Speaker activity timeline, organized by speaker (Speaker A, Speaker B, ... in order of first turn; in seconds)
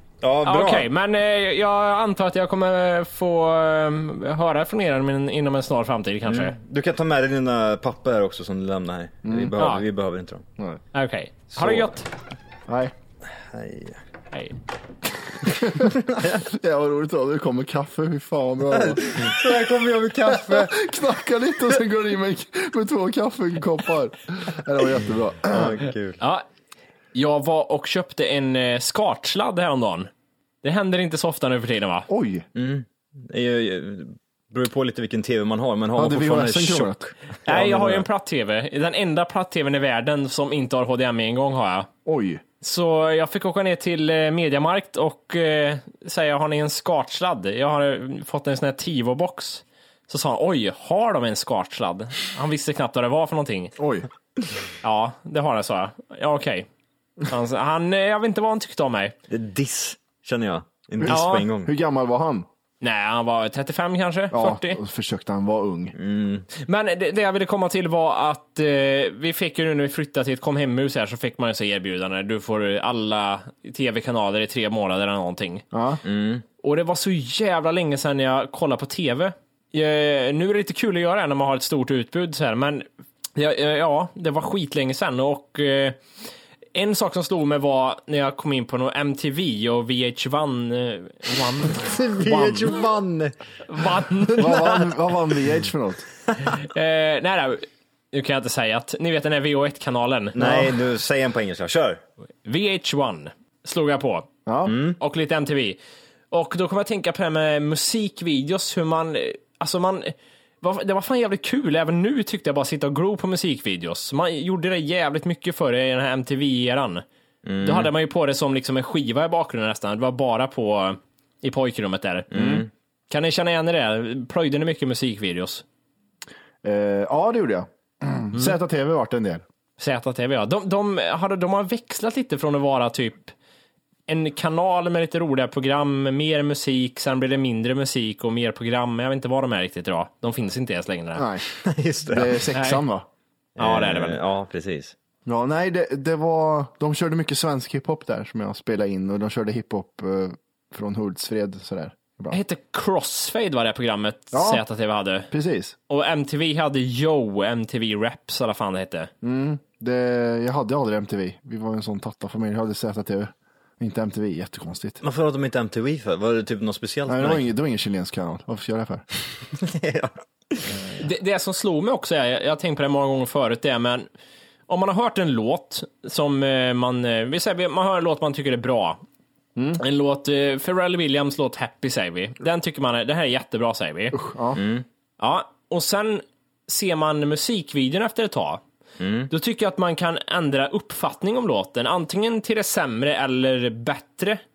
Speaker A: 0.2-0.9, 6.3-10.4, 11.5-11.9, 13.5-14.0, 18.7-20.8, 25.5-26.2, 32.5-37.1, 59.3-61.7, 66.0-66.5, 76.0-76.5, 91.7-94.9, 100.3-102.0, 104.7-105.0, 117.5-117.9, 122.3-122.7, 141.6-142.4, 143.6-144.9, 165.0-167.4, 169.6-170.7, 184.6-184.8, 189.0-189.3
Speaker B: 0.4-6.6, 9.6-9.8, 10.9-12.1, 14.3-14.6, 26.2-26.4, 27.1-30.1, 30.6-32.1, 37.5-41.9, 42.6-53.7, 54.8-56.7, 57.2-59.2, 61.1-61.5, 62.8-64.8, 66.6-75.6, 76.6-86.0, 86.7-92.7, 93.7-94.4, 96.5-100.7, 102.5-104.3, 105.0-105.8, 106.3-117.0, 117.6-122.3, 123.1-125.6, 129.8-133.3, 134.1-141.3, 142.5-142.8, 143.6-144.2, 152.3-155.3, 155.9-159.1, 171.0-174.1, 174.7-179.0, 179.8-184.2, 185.2-188.6, 189.3-194.4
Speaker C: 9.2-9.6, 12.7-12.9, 15.4-19.4, 20.3-25.8, 32.1-32.5, 36.0-37.1, 42.0-42.4, 53.8-54.1, 61.0-62.5, 64.3-66.0, 75.7-76.0, 94.3-96.0, 104.5-104.8, 122.3-122.7, 126.6-129.4, 141.2-141.5, 142.1-143.1, 145.3-152.4, 154.3-154.6, 155.3-155.8, 159.2-165.0, 167.1-169.1, 179.6-179.8, 184.1-184.6